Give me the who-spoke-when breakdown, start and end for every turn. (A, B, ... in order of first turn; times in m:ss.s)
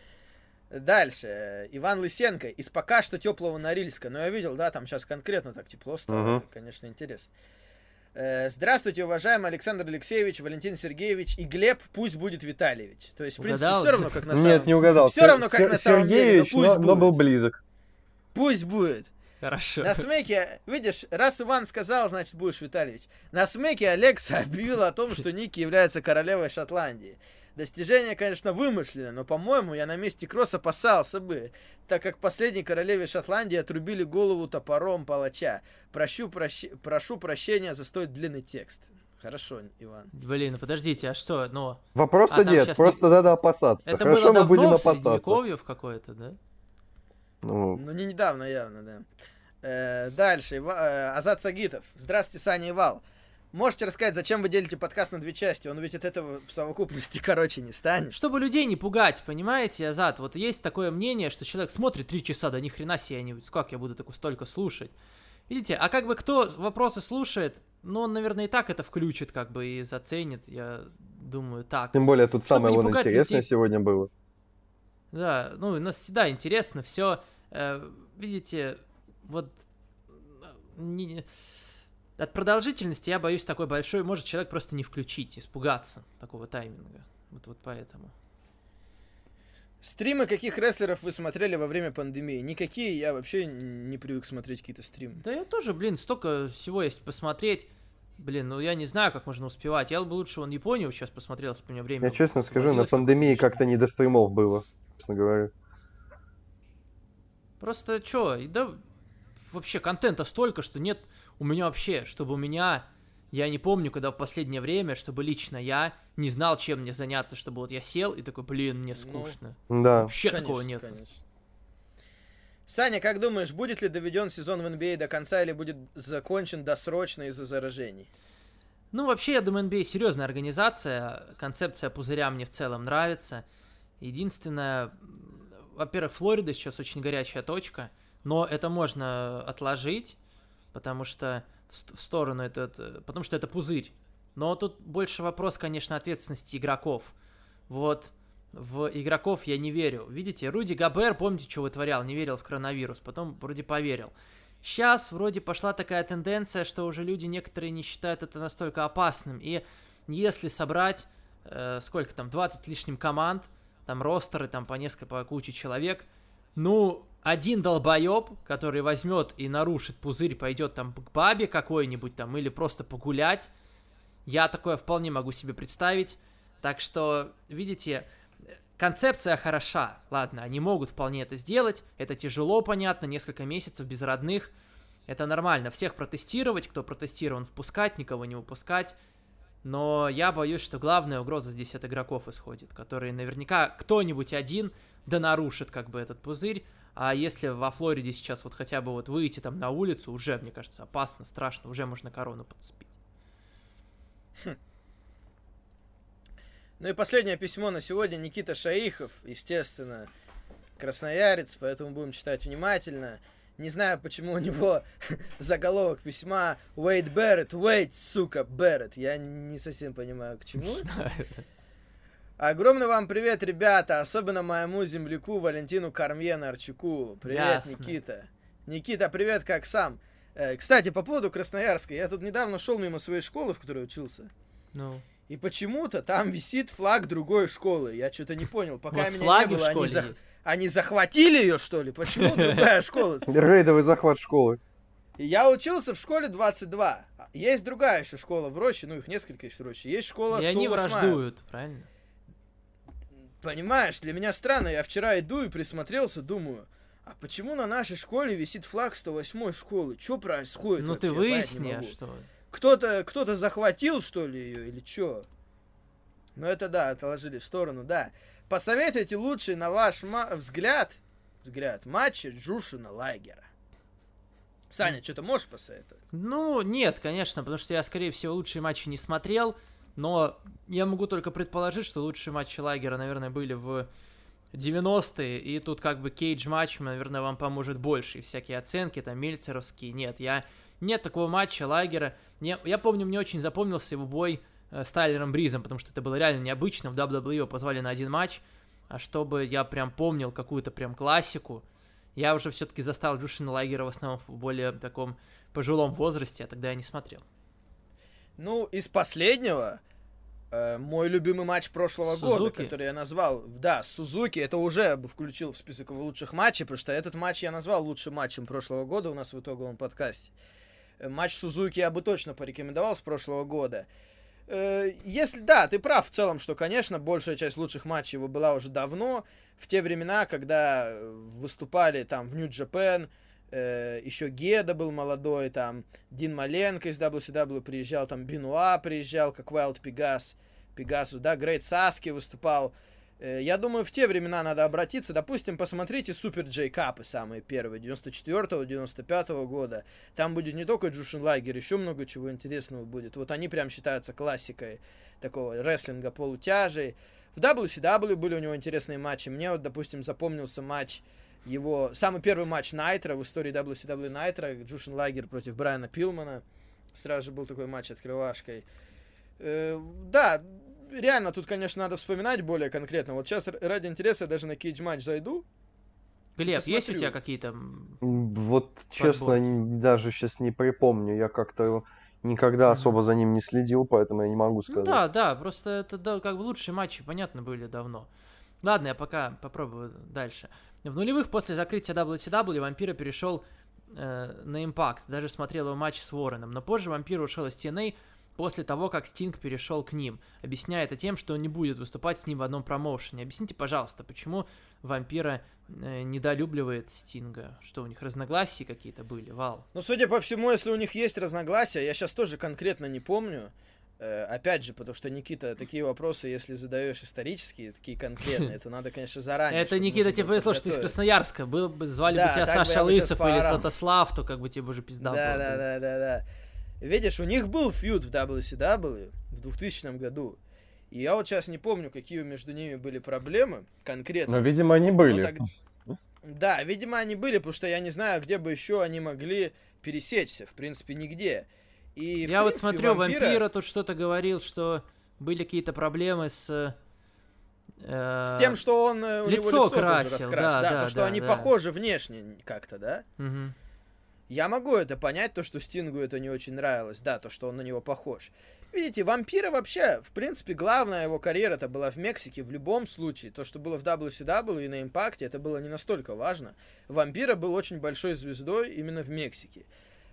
0:00.7-0:07.3 A
0:06.1-0:06.4 B
0:08.1-0:17.1 A
0:13.4-0:14.2 C
0:14.3-0:17.6 B
0:18.3-0:19.1 A
0:19.4-0:20.0 C
0:19.8-0:40.1 A
0:40.1-0:43.0 C
0:41.9-0:45.4 B
0:43.8-0:46.4 C
0:47.4-0:47.8 B
0:47.7-0:49.1 A
0:49.6-0:58.2 A
0:58.1-1:04.9 C
1:05.5-1:13.4 C
1:11.9-1:14.1 B
1:15.1-1:19.6 C
1:20.3-1:21.3 C
1:22.2-1:28.1 C
1:29.8-1:35.2 A
1:35.2-1:43.6 C
1:42.0-1:45.5 B
1:47.6-1:48.8 C
1:49.5-2:01.0 C
1:59.0-1:59.4 A
1:59.7-2:00.1 B
2:00.2-2:01.2 A
2:02.7-2:08.1 A
2:08.9-2:13.4 C
2:14.0-2:20.2 C
2:20.7-2:27.1 C
2:27.7-2:34.1 C
2:34.6-2:53.5 C
2:54.2-2:58.0 C
2:58.7-3:04.5 C
3:05.1-3:09.0 C
3:09.6-3:22.9 C
3:26.8-3:30.1 A
3:30.8-3:40.9 A
3:40.8-3:41.4 C
3:42.4-3:54.3 A
3:47.2-3:48.0 C
3:54.7-3:55.0 C
3:55.3-4:03.3 A
3:58.9-4:00.2 C
4:02.2-4:02.6 C
4:03.3-4:04.6 B
4:05.2-4:11.2 A
4:10.3-4:11.9 C
4:13.4-4:21.9 A
4:20.8-4:22.2 C
4:22.5-4:25.2 A
4:26.4-4:33.5 A
4:34.7-4:36.0 A
4:36.1-4:43.9 C
4:44.5-5:01.6 C
5:02.2-5:07.2 C
5:08.4-5:09.8 A
5:10.5-5:20.3 A
5:12.1-5:12.7 C
5:21.0-5:23.8 A
5:24.5-6:06.4 A
6:06.9-6:08.6 A
6:09.4-6:15.4 A
6:16.4-6:18.0 C
6:16.4-6:17.1 A
6:18.0-6:25.0 B
6:19.0-6:19.6 C
6:22.7-6:23.0 C
6:24.7-6:28.1 C
6:28.6-6:49.6 C
6:49.7-7:01.0 A
6:59.5-7:05.6 C
7:02.1-7:03.7 A
7:05.0-7:06.2 A
7:06.8-7:10.4 A
7:10.9-7:14.5 A
7:14.3-7:15.4 B
7:15.0-7:15.4 A
7:16.2-7:23.4 A
7:22.2-7:26.8 C
7:27.8-7:28.6 C
7:28.3-7:33.0 A
7:29.2-7:31.5 C
7:33.2-7:33.5 C
7:34.3-7:49.7 A